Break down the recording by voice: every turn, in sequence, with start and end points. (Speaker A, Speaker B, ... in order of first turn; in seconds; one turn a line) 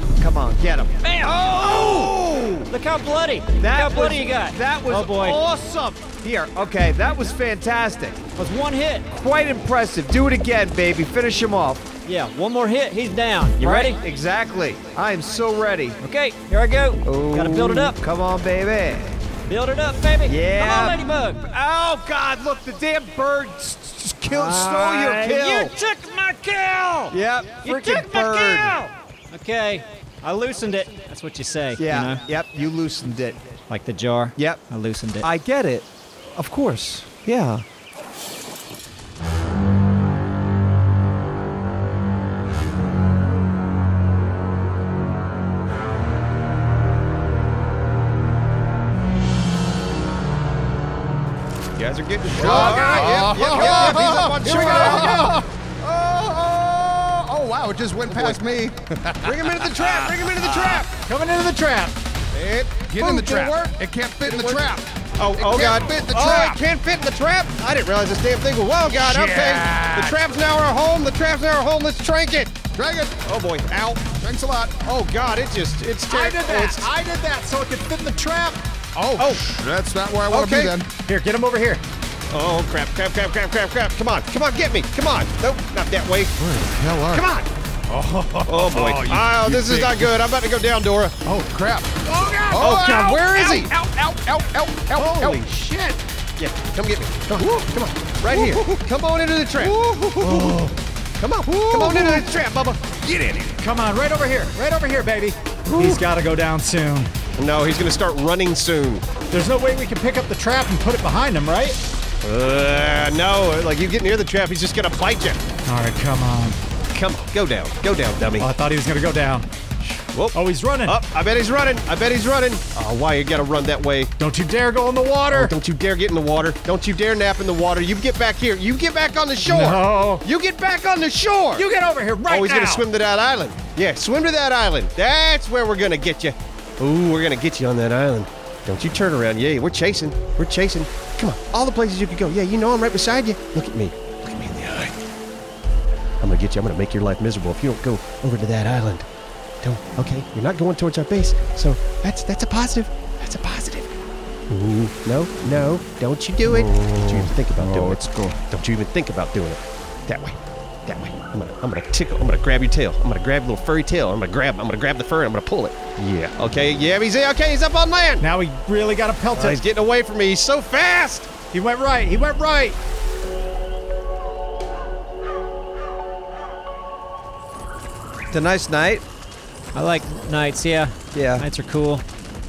Speaker A: 0.2-2.7
Speaker B: 1.0-2.1
Speaker B: 2.7-5.4
Speaker A: 3.6-8.2
Speaker B: 8.3-9.1
Speaker A: 9.1-11.8
Speaker B: 12.0-14.0
Speaker A: 13.6-16.0
Speaker B: 16.0-18.0
Speaker A: 17.1-19.2
Speaker B: 19.4-21.4
Speaker A: 20.2-25.7
Speaker B: 24.3-32.2
Speaker A: 27.1-28.8
Speaker A: 31.8-33.4
Speaker B: 33.7-35.3
Speaker A: 34.4-34.6
Speaker A: 35.2-37.6
Speaker C: 51.8-55.2
Speaker D: 52.3-60.8
Speaker E: 52.4-55.4
Speaker C: 58.1-58.4
Speaker C: 59.2-60.9
Speaker E: 60.9-62.0
Speaker C: 62.3-64.6
Speaker D: 62.9-66.6
Speaker C: 65.2-72.5
Speaker D: 69.0-70.2
Speaker D: 72.7-73.2
Speaker C: 73.2-74.1
Speaker D: 74.1-74.9
Speaker C: 74.8-76.9
Speaker E: 76.1-78.6
Speaker D: 78.9-80.9
Speaker C: 79.2-79.4
Speaker C: 80.3-80.8
Speaker E: 81.0-81.8
Speaker C: 82.3-86.3
Speaker D: 86.4-87.3
Speaker C: 87.1-87.5
Speaker D: 87.9-90.2
Speaker C: 88.5-91.2
Speaker D: 91.2-95.4
Speaker C: 92.5-93.7
Speaker E: 95.0-96.0
Speaker C: 96.4-100.7
Speaker D: 98.3-98.8
Speaker D: 99.5-100.7
Speaker E: 100.3-100.6
Speaker C: 101.2-103.5
Speaker D: 101.5-102.3
Speaker E: 103.6-107.1
Speaker C: 105.7-106.0
Speaker C: 107.4-109.1
Speaker E: 109.3-111.8
Speaker C: 112.2-115.4
Speaker E: 115.7-116.6
Speaker C: 116.9-118.5
Speaker E: 118.4-119.5
Speaker C: 119.8-124.1
Speaker E: 120.3-121.0
Speaker E: 124.2-125.5
Speaker C: 125.3-131.7
Speaker E: 129.4-130.2
Speaker E: 131.6-132.9
Speaker C: 132.3-145.0
Speaker C: 146.2-149.1
Speaker C: 149.6-153.9
Speaker C: 154.5-168.2
Speaker D: 156.4-158.4
Speaker E: 168.2-169.6
Speaker C: 169.3-171.3
Speaker E: 171.5-172.8
Speaker A: 178.3-179.0
Speaker B: 179.7-182.0
Speaker A: 181.1-181.4